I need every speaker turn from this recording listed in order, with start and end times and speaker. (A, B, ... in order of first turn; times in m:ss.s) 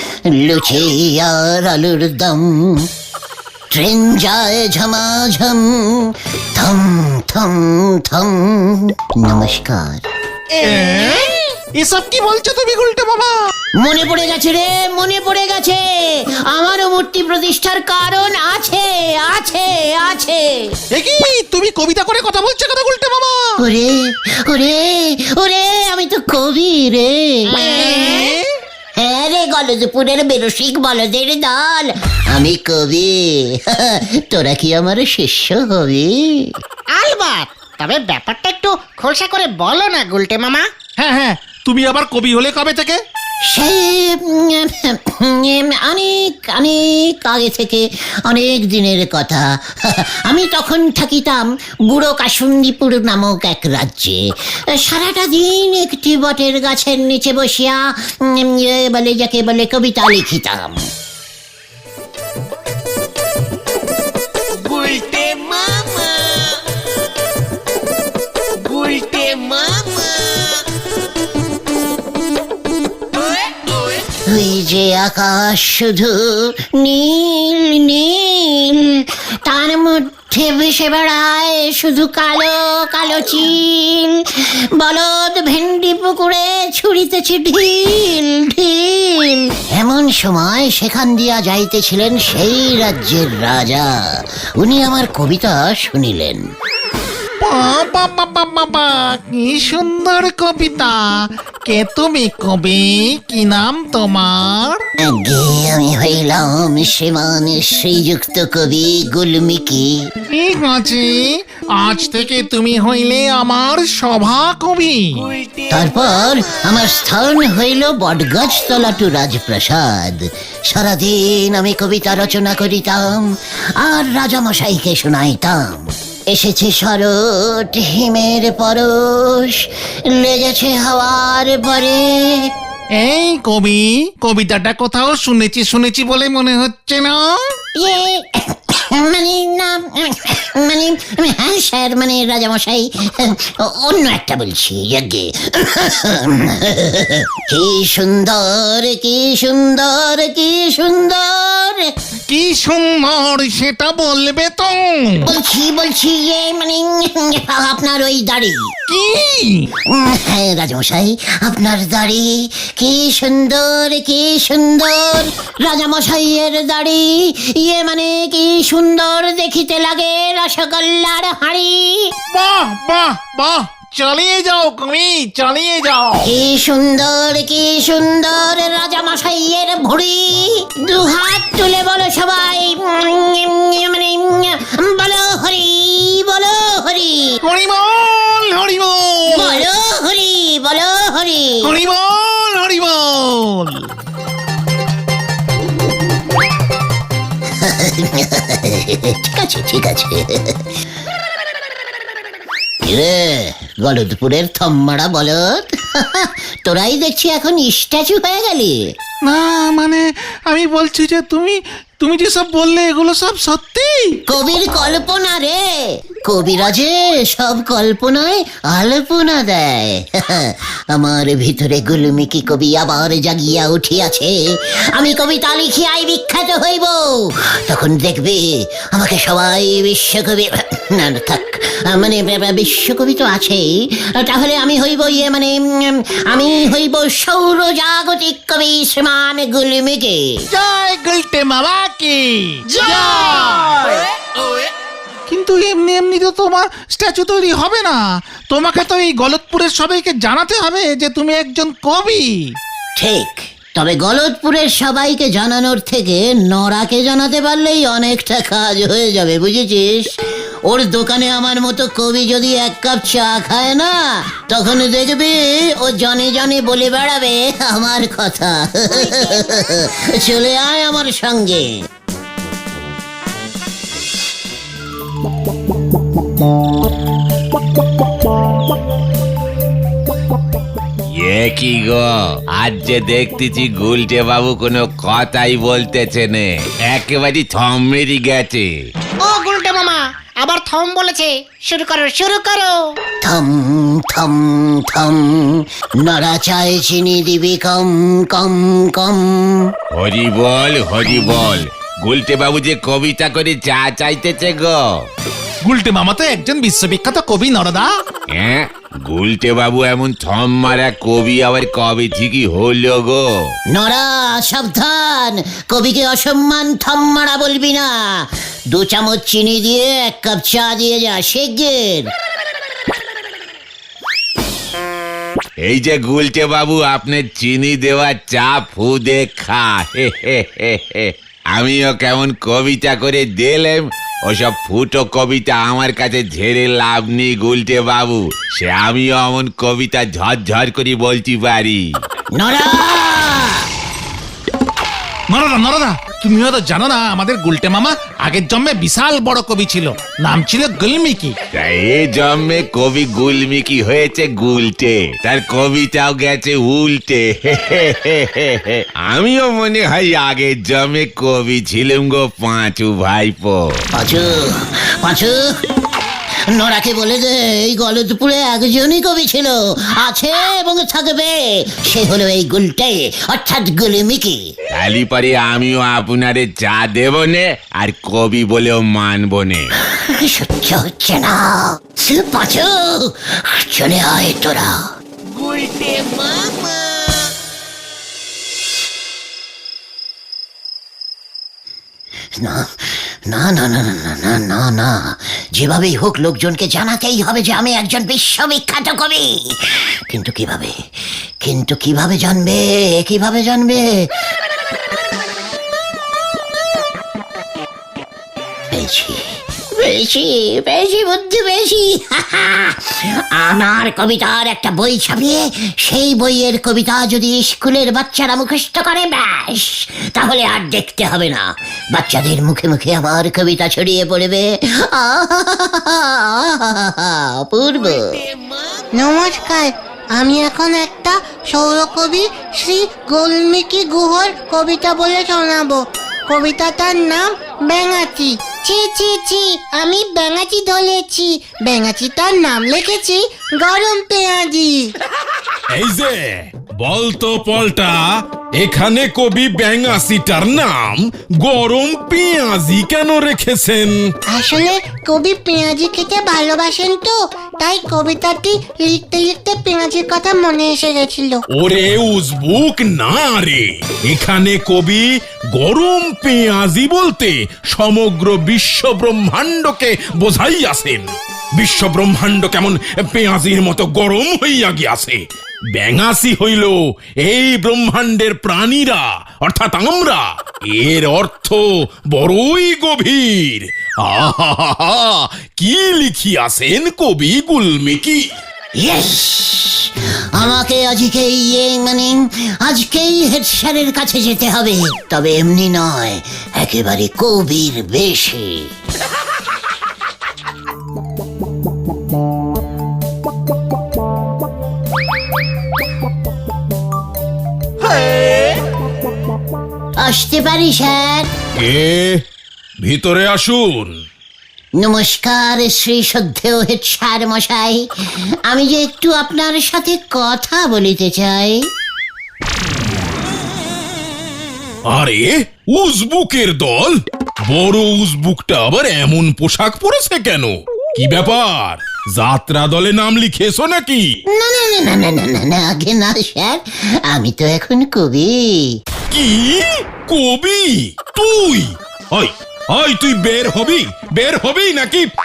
0:00.3-0:02.9 A
0:03.7-0:10.0 A
0:10.6-0:13.3 B
0:13.8-0:20.7 A
0:20.9-0:23.6 B
0:23.6-0:27.6 A
0:27.5-0:28.2 C
0:27.6-0:28.4 B
0:29.0-0:36.5 A
0:36.9-0:40.7 C
0:41.0-0:43.0 B
0:43.5-1:00.8 A
1:04.5-1:06.6 D
1:08.6-1:10.6 D
1:13.1-1:14.0 D
1:14.2-1:34.0 A
1:34.6-1:36.4 A
1:37.4-1:44.8 B
1:45.0-1:50.1 A
1:50.3-1:55.2 B
1:55.2-1:56.4 D
1:55.7-2:12.5 A
2:13.0-2:17.2 B
2:17.7-2:31.9 A
2:32.3-2:35.3 B
2:35.2-2:38.7 A
2:38.9-2:39.7 B
2:39.8-2:52.1 A
2:52.3-2:56.3 B
2:56.2-3:07.4 A
3:07.4-3:09.6 B
3:09.3-3:11.7 A
3:11.6-3:13.8 B
3:17.6-3:20.7 A
3:22.8-3:28.8 A
3:29.2-3:34.2 B
3:34.3-3:44.4 A
3:44.9-4:00.4 A
4:00.5-4:03.7 B
4:02.8-4:03.1 C
4:05.3-4:12.4 B
4:13.0-4:20.2 A
4:20.7-4:31.7 A
4:29.1-4:29.5 D
4:41.1-4:48.7 E
4:49.2-4:52.8 C
4:53.2-4:59.7 A
4:59.9-5:05.1 E
5:05.6-5:07.9 B
5:08.3-5:13.5 E
5:13.7-5:22.1 A
5:25.6-5:41.9 E
5:42.4-5:43.7 A
5:45.3-5:51.4 B
5:51.6-6:03.8 E
6:03.9-6:05.4 A
6:06.5-6:14.4 A
6:14.7-6:19.7 E
6:19.8-6:24.9 A
6:25.2-6:27.3 D
6:32.4-6:40.8 A
6:41.4-6:44.1 A
6:48.7-7:08.2 A
7:07.8-7:08.8 D
7:08.9-7:24.9 F
7:25.7-7:34.1 G
7:34.3-7:41.4 F
7:41.5-7:55.2 G
7:55.7-8:08.2 G
8:08.8-8:18.7 A
8:30.0-8:31.3 A
8:31.5-8:32.2 G
8:32.8-8:34.0 G
8:34.8-8:37.9 A
8:38.4-8:41.6 A
8:44.8-8:54.1 G
8:54.3-8:58.8 A
8:59.1-9:05.1 G